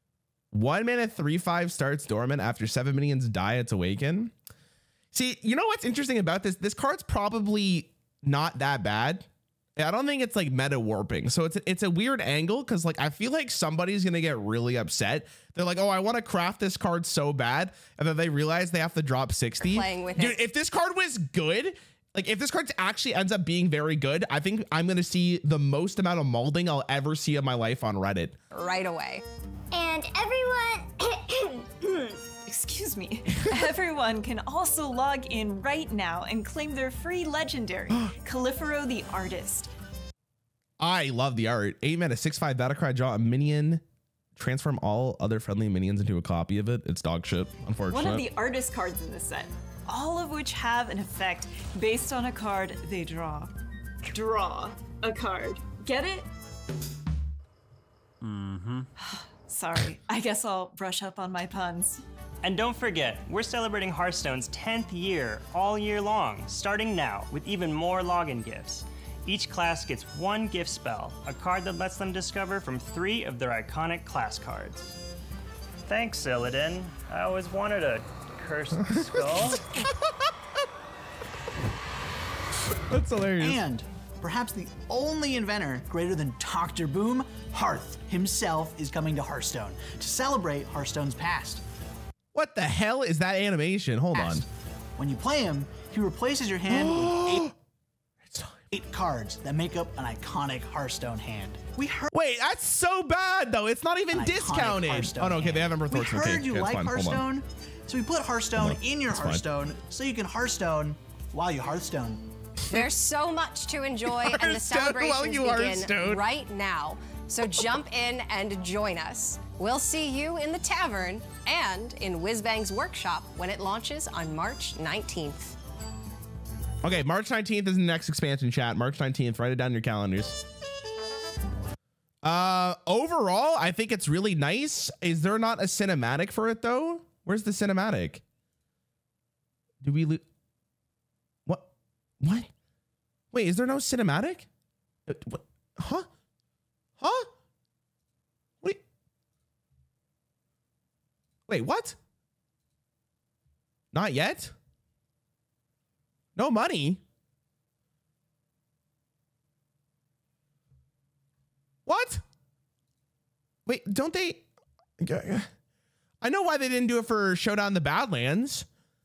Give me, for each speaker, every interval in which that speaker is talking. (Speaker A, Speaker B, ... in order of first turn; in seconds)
Speaker A: 0.5-4.3, 5.1-28.4, 40.8-43.8, 44.4-48.3, 82.9-83.6, 92.3-94.4, 96.7-97.5, 98.2-98.7, 102.1-107.2, 108.5-109.4, 114.0-116.2, 126.8-130.4, 132.2-138.2, 139.8-140.2, 142.2-142.5, 143.3-144.5, 145.1-146.1, 147.0-147.3, 151.5-152.0, 153.9-154.5, 156.3-157.0, 161.8-162.2, 163.7-164.4, 165.0-165.5, 166.2-168.7
Speaker B: 19.6-20.4, 28.5-29.2, 112.7-125.5
Speaker C: 29.7-32.2
Speaker D: 32.4-39.7, 47.9-53.5, 54.1-56.3, 59.0-62.0
Speaker E: 58.2-58.9, 62.4-75.0, 75.8-79.8
Speaker F: 83.4-91.6, 94.1-94.4, 95.0-97.5, 98.7-102.1, 104.1-112.3